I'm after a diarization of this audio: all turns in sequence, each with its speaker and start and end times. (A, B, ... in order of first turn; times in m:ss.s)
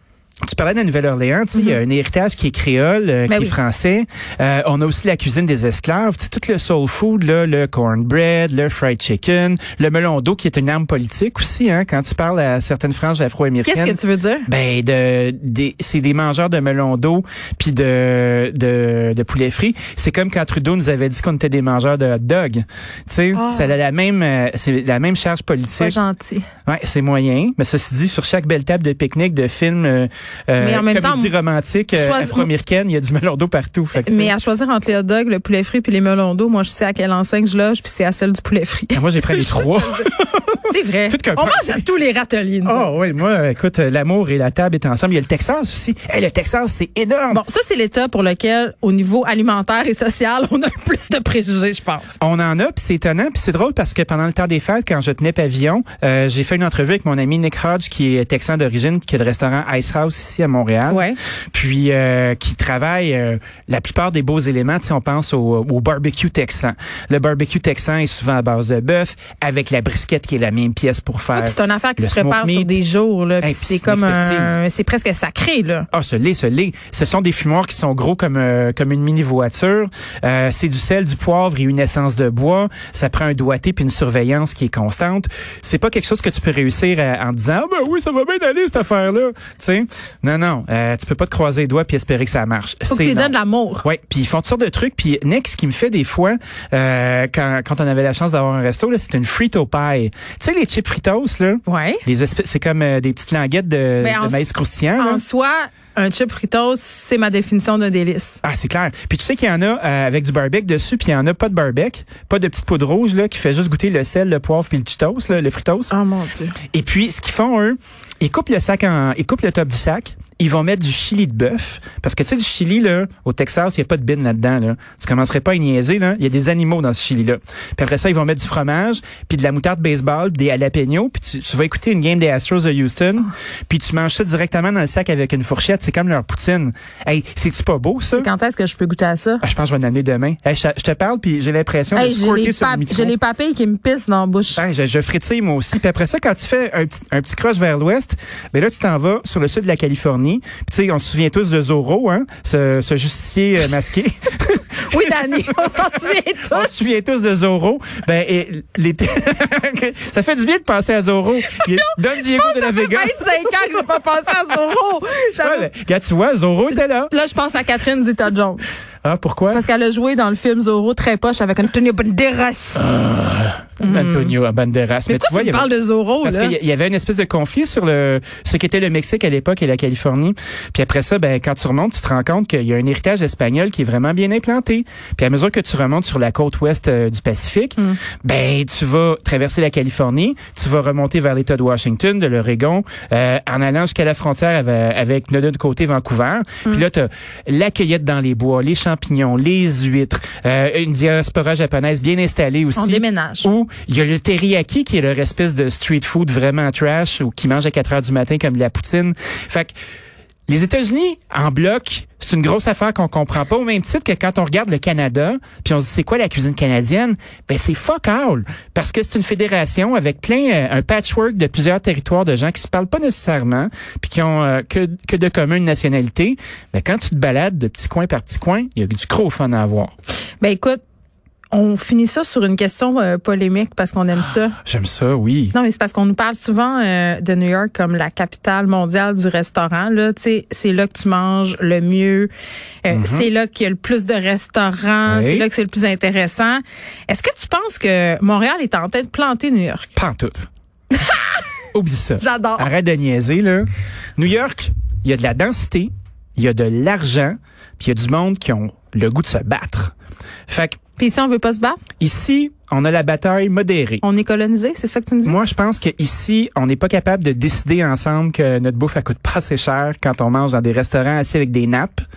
0:00.4-0:26.0 A
0:01.5-0:01.8 B
0:03.3-0:03.6 B
0:13.6-0:14.5 B
0:23.3-0:23.7 B
0:25.8-0:26.5 B
0:26.6-0:34.3 A
0:30.6-0:31.3 B
0:31.9-0:32.5 B
0:34.0-0:40.1 B
0:38.9-0:41.8 A
0:40.6-0:42.9 B
0:42.6-0:47.4 A
0:47.3-0:52.1 B
0:52.2-1:12.7 A
1:00.9-1:01.2 B
1:11.3-1:15.9 B
1:13.4-1:14.6 A
1:15.9-1:45.2 A
1:32.9-1:33.8 B
1:41.6-1:42.0 B
1:44.0-1:48.4 B
1:48.4-1:55.9 A
1:55.9-1:56.6 B
1:56.7-2:18.3 A
2:18.1-2:19.4 B
2:19.4-2:23.1 A
2:21.9-2:24.6 B
2:24.5-2:44.3 A
2:34.7-2:36.7 B
2:41.5-2:45.7 B
2:45.4-2:47.1 A
2:47.1-2:48.7 B
2:49.0-2:49.6 A
2:49.5-2:52.9 B
2:52.8-2:55.7 A
2:53.8-2:54.3 B
2:55.1-2:56.5 B
2:56.2-3:29.7 A
3:22.8-3:23.5 B
3:30.5-3:49.9 A
3:50.4-3:50.8 B
3:51.5-3:54.6 B
3:54.6-3:55.5 A
3:55.5-4:02.3 B
4:02.8-4:09.9 B
4:02.9-4:03.3 A
4:05.0-4:05.4 A
4:10.0-4:10.5 A
4:10.9-4:11.4 B
4:11.7-4:19.9 A
4:12.2-4:12.7 B
4:20.5-4:20.8 A
4:21.0-4:21.8 B
4:22.0-4:24.0 A
4:24.0-4:25.4 B
4:25.2-4:32.0 A